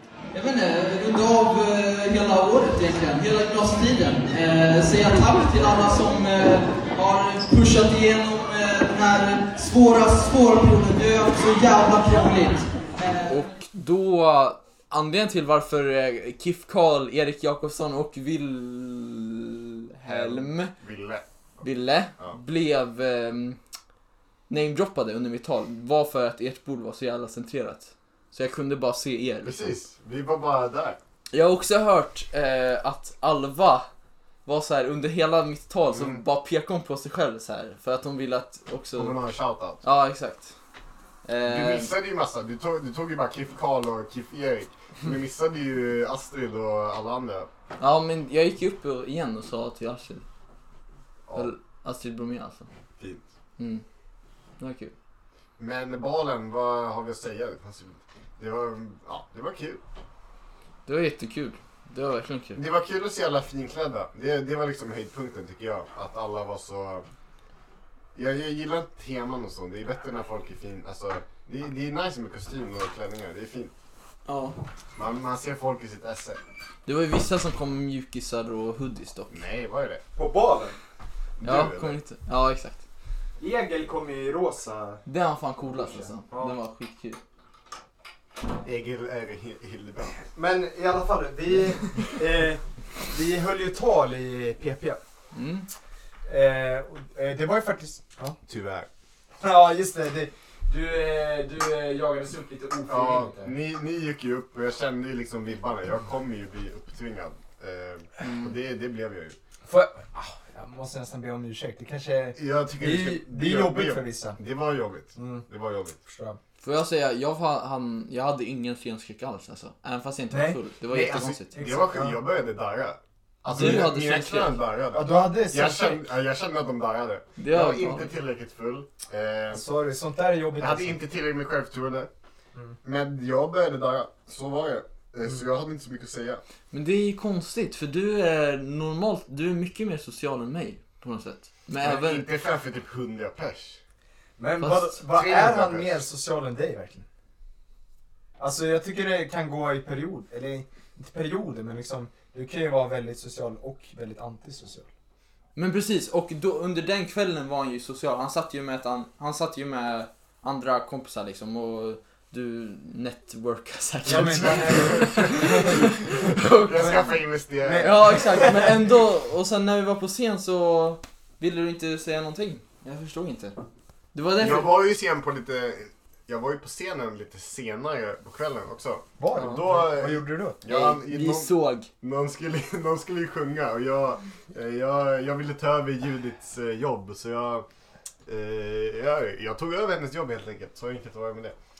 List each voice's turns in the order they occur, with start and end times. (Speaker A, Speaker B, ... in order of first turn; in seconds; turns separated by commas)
Speaker A: 0.3-20.7, Speaker B: 20.1-21.2, Speaker A: 21.6-23.6, Speaker A: 24.5-29.7, Speaker B: 29.4-31.0, Speaker A: 31.3-33.9, Speaker A: 34.5-39.1, Speaker B: 35.9-36.2, Speaker B: 39.0-39.8, Speaker A: 39.8-40.5, Speaker A: 41.2-41.9, Speaker B: 41.5-47.5, Speaker A: 47.8-50.2, Speaker A: 51.3-52.7, Speaker B: 53.0-53.2, Speaker A: 53.6-53.8, Speaker A: 54.6-54.9, Speaker B: 55.6-59.8, Speaker A: 60.9-62.6, Speaker B: 62.6-67.0, Speaker B: 68.1-73.7, Speaker A: 74.3-74.6, Speaker B: 75.0-76.4, Speaker A: 76.9-79.4, Speaker B: 79.3-80.0, Speaker C: 80.2-80.8, Speaker B: 81.4-82.0, Speaker A: 81.4-82.8, Speaker C: 83.4-85.0, Speaker A: 85.1-87.2, Speaker C: 86.3-86.6, Speaker B: 88.6-90.3, Speaker C: 90.3-95.0, Speaker A: 95.3-95.7, Speaker C: 96.3-98.4, Speaker B: 98.5-98.9, Speaker C: 99.4-103.5, Speaker B: 102.9-109.4, Speaker A: 108.2-108.5, Speaker C: 109.6-114.4, Speaker B: 112.3-116.0, Speaker C: 115.2-115.5, Speaker C: 116.1-116.4, Speaker A: 116.6-121.7, Speaker C: 120.3-122.2, Speaker B: 121.2-129.6, Speaker A: 123.5-124.6, Speaker C: 123.6-123.9, Speaker C: 124.9-126.1, Speaker A: 127.4-128.1, Speaker C: 129.5-131.0, Speaker B: 130.6-132.1, Speaker B: 132.8-136.4, Speaker A: 136.7-142.3, Speaker B: 141.8-143.8, Speaker C: 144.4-147.1, Speaker B: 144.9-146.0, Speaker C: 148.4-154.9, Speaker A: 155.6-167.1, Speaker C: 164.1-165.9, Speaker B: 164.1-165.7, Speaker B: 166.4-168.5, Speaker C: 167.6-168.7, Speaker A: 167.8-173.6, Speaker A: 174.1-174.8, Speaker B: 174.4-187.7, Speaker C: 179.2-180.6, Speaker A: 180.7-181.9, Speaker B: 188.3-191.6